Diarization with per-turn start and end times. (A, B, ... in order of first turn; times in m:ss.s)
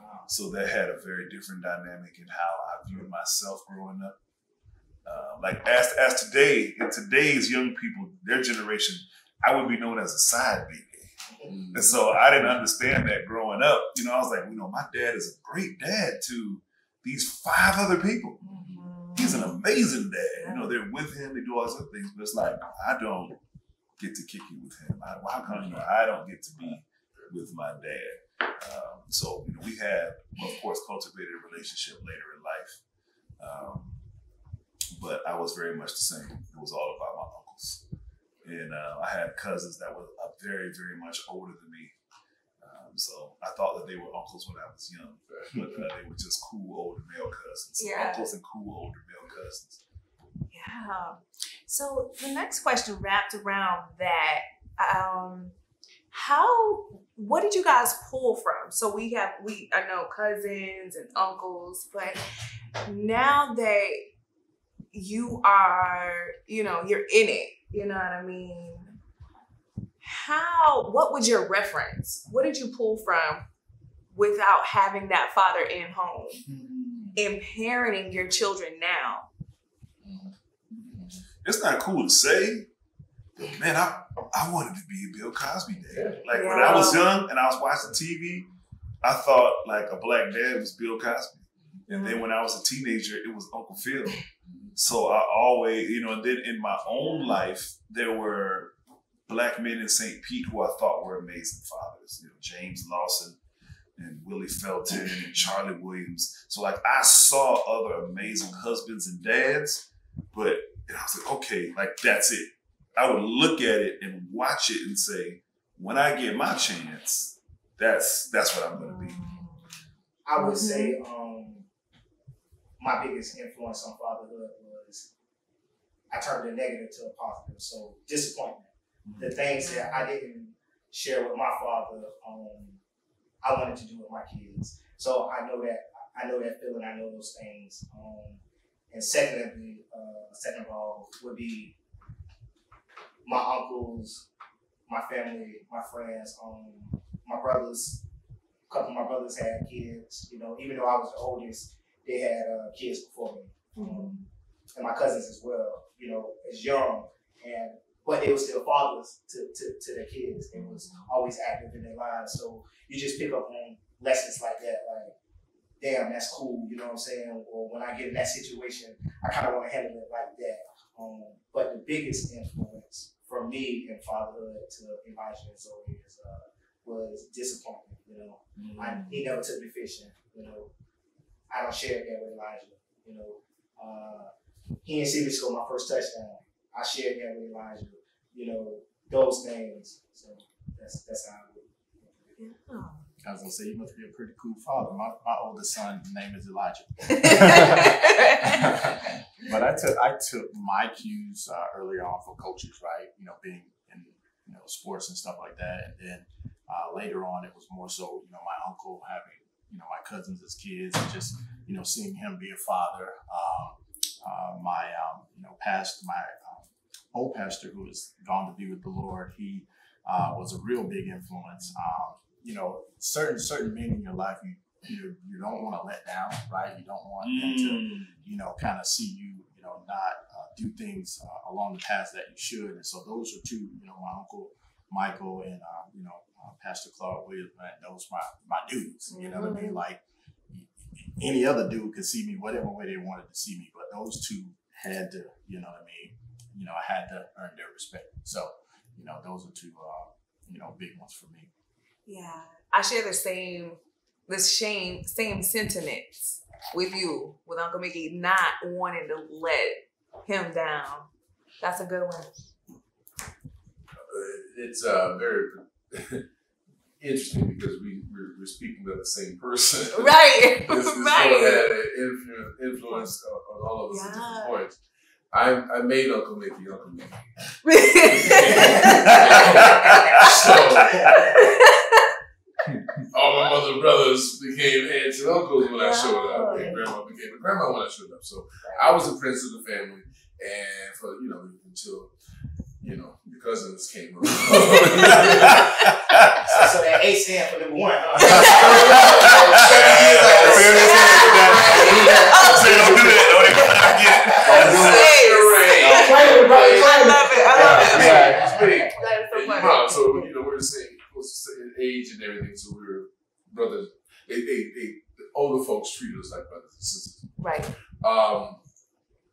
0:00.3-0:04.2 A
0:05.0-0:11.1 A
0:11.5-0:11.9 B
0:11.7-0:18.4 A
0:18.4-0:19.5 C
0:19.2-0:23.4 A
0:20.3-0:20.7 C
0:24.0-0:32.8 A
0:33.4-0:34.0 A
0:35.0-0:37.8 A
0:38.4-0:41.9 A
0:42.6-0:49.8 A
0:45.3-0:45.8 B
0:47.8-0:48.3 C
0:50.5-0:55.5 C
0:56.1-1:02.2 C
1:02.8-1:04.1 C
1:04.9-1:09.0 C
1:10.0-1:13.4 C
1:14.1-1:16.4 C
1:17.2-1:19.3 C
1:21.4-1:22.7 A
1:23.4-1:28.5 A
1:25.9-1:26.2 B
1:26.3-1:27.1 C
1:29.0-1:34.2 A
1:31.9-1:32.2 C
1:34.5-1:34.7 B
1:34.8-1:38.7 A
1:37.0-1:37.3 C
1:39.3-1:43.4 A
1:44.0-1:59.2 A
1:58.8-1:59.8 C
2:00.2-2:01.6 D
2:00.4-2:01.0 C
2:02.8-2:05.1 D
2:06.1-2:08.7 D
2:09.1-2:09.3 A
2:09.2-2:12.8 D
2:09.6-2:10.1 C
2:13.4-2:18.4 D
2:18.9-2:21.7 D
2:23.2-2:24.2 D
2:24.9-2:28.0 D
2:28.7-2:34.1 D
2:33.8-2:34.2 C
2:34.7-2:45.1 D
2:40.5-2:41.1 C
2:45.8-3:00.7 D
2:58.6-2:59.0 E
3:01.5-3:04.3 D
3:04.8-3:12.4 D
3:12.4-3:13.1 C
3:13.2-4:11.5 E
3:17.1-3:18.9 C
3:47.2-3:48.1 A
3:59.1-3:59.8 C
4:12.1-4:21.1 C
4:21.6-4:22.3 C
4:24.1-4:26.3 B
4:27.0-4:34.8 B
4:30.0-4:31.7 C
4:33.9-4:34.6 C
4:35.3-4:37.3 B
4:37.6-4:40.3 C
4:38.1-4:41.2 B
4:38.5-4:38.9 D
4:39.1-4:41.4 A
4:40.8-4:41.5 D
4:41.1-4:42.1 C
4:43.1-4:52.1 B
4:45.7-4:46.7 C
4:48.6-4:49.0 D
4:52.8-4:55.7 B
4:55.0-4:56.8 A
4:56.5-4:58.9 D
4:58.2-4:59.2 C
4:58.2-5:02.3 B
4:58.3-5:05.1 A
5:00.3-5:10.3 C
5:02.3-5:03.6 D
5:04.3-5:04.9 D
5:04.4-5:17.4 B
5:05.8-5:08.8 D
5:07.5-5:08.7 E
5:17.4-5:17.7 C
5:17.9-5:18.6 B